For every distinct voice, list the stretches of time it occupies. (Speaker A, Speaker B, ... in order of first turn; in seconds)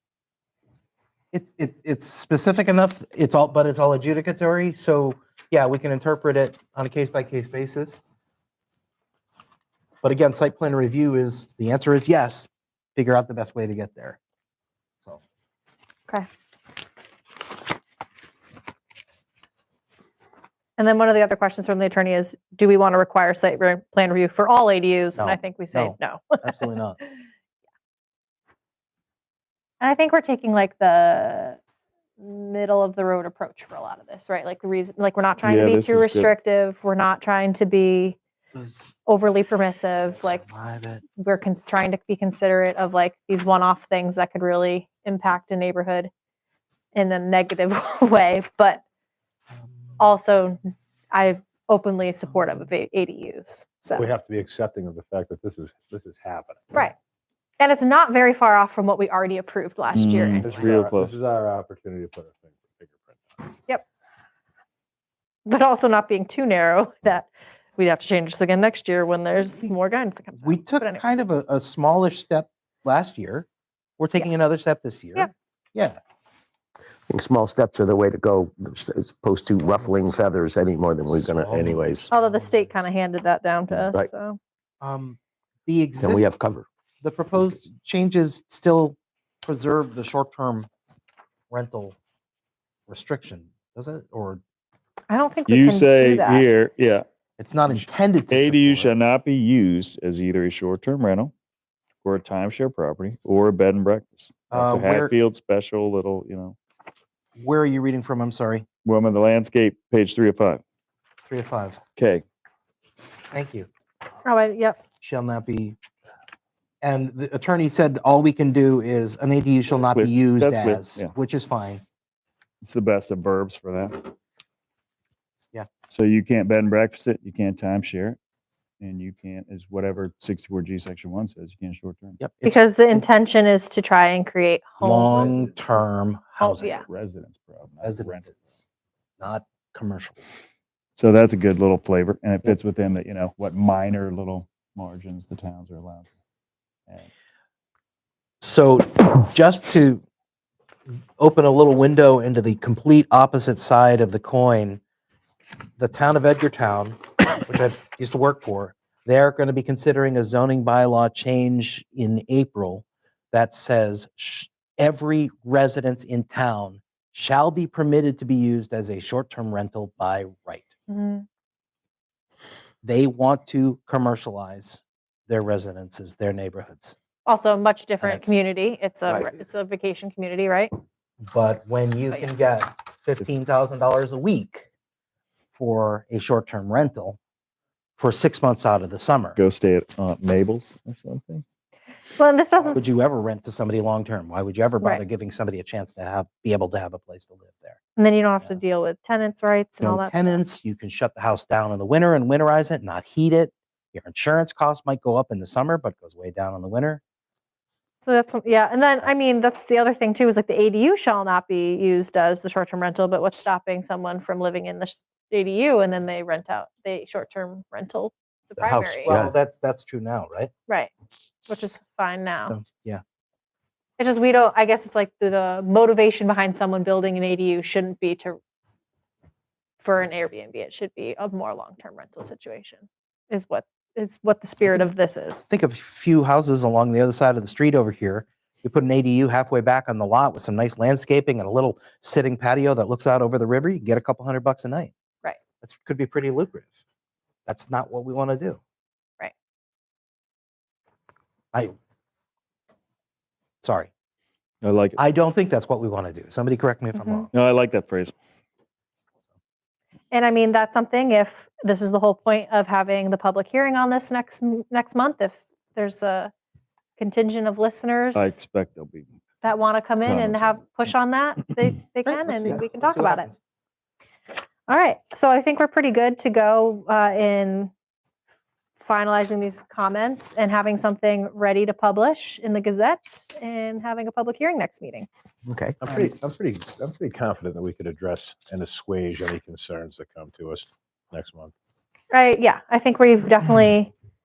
Speaker A: 1.3-8.0, 10.0-14.2, 25.2-27.0, 38.5-38.9, 40.1-41.0, 70.4-73.5, 74.0-76.0, 81.1-82.8, 84.8-86.2, 87.0-90.7, 91.5-92.0, 92.9-94.4, 97.4-98.9, 104.5-105.1, 107.3-108.7, 111.3-111.8, 113.3-113.7, 115.0-115.8, 116.8-121.8, 132.2-133.0, 134.8-136.8, 137.8-138.3, 139.2-140.2, 148.4-150.0, 151.2-154.8, 155.8-170.7, 172.8-176.9, 178.0-178.4, 179.1-179.3, 181.3-184.7, 185.5-187.2, 188.0-189.4, 192.7-197.8, 199.8-207.0, 219.0-220.5, 222.5-223.0, 235.5-244.9, 245.6-246.8, 247.4-248.6, 253.6-253.9, 255.0-257.3, 272.1-273.4
Speaker B: 20.8-26.6, 29.8-31.6, 32.2-38.2, 39.0-40.4, 41.2-46.1, 46.9-48.8, 50.0-54.1, 57.6-60.7, 65.5-71.0, 82.1-84.4, 95.1-96.5, 114.2-114.8, 132.4-135.4, 136.4-136.8, 170.9-171.2, 177.2-180.7, 192.2-193.0, 197.9-200.4, 208.0-219.1, 221.5-222.5, 224.0-228.4, 229.8-235.4, 256.9-257.2, 260.1-266.3, 267.0-268.4, 269.4-273.3, 274.7-277.7, 278.8-285.1, 292.1-293.9
Speaker C: 35.4-36.3, 59.9-61.1, 95.5-97.0, 97.7-101.3, 102.0-106.5, 108.8-110.6, 112.0-112.2, 119.7-121.1, 122.6-124.1, 125.9-128.2, 128.8-132.2, 136.8-138.6, 141.0-146.1, 189.3-191.4, 254.6-255.0, 257.3-258.1, 268.1-269.1, 270.0-270.6
Speaker D: 53.9-56.7, 60.4-63.5, 285.8-291.5
Speaker E: 77.1-82.1, 83.7-84.1, 86.0-86.7, 218.6-219.3, 285.5-285.8